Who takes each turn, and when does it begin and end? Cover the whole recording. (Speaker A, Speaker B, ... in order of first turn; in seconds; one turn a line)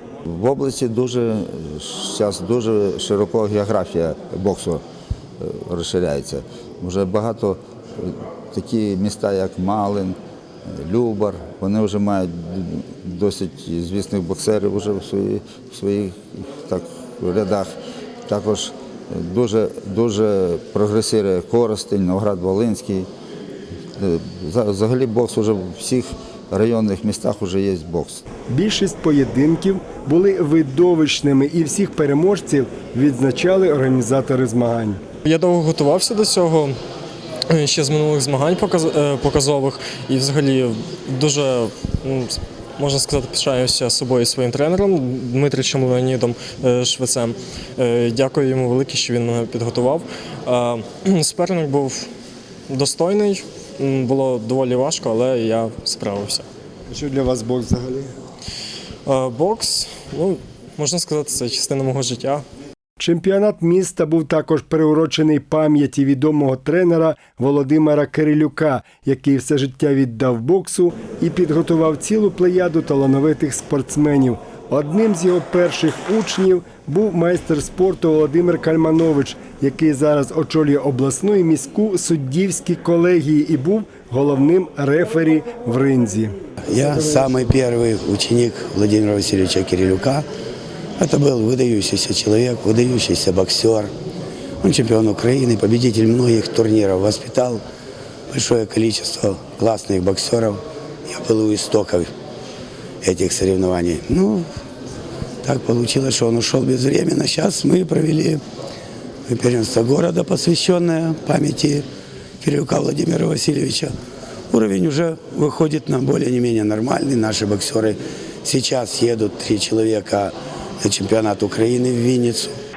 Speaker A: 0.3-4.8
Speaker A: 5.4-17.7
Speaker A: 18.3-23.1
Speaker A: 24.0-28.2
Speaker B: 28.5-35.0
Speaker C: 35.2-36.7
Speaker C: 37.5-52.1
Speaker C: 52.7-56.5
Speaker B: 56.9-58.1
Speaker C: 59.0-62.4
Speaker B: 63.0-86.3
Speaker D: 86.7-90.3
Speaker D: 91.0-93.9
Speaker D: 94.6-97.6
Speaker D: 98.3-102.1
Speaker D: 103.0-104.5
Speaker D: 105.4-108.4
Speaker D: 109.3-111.8
Speaker D: 112.4-113.9
Speaker D: 114.5-122.6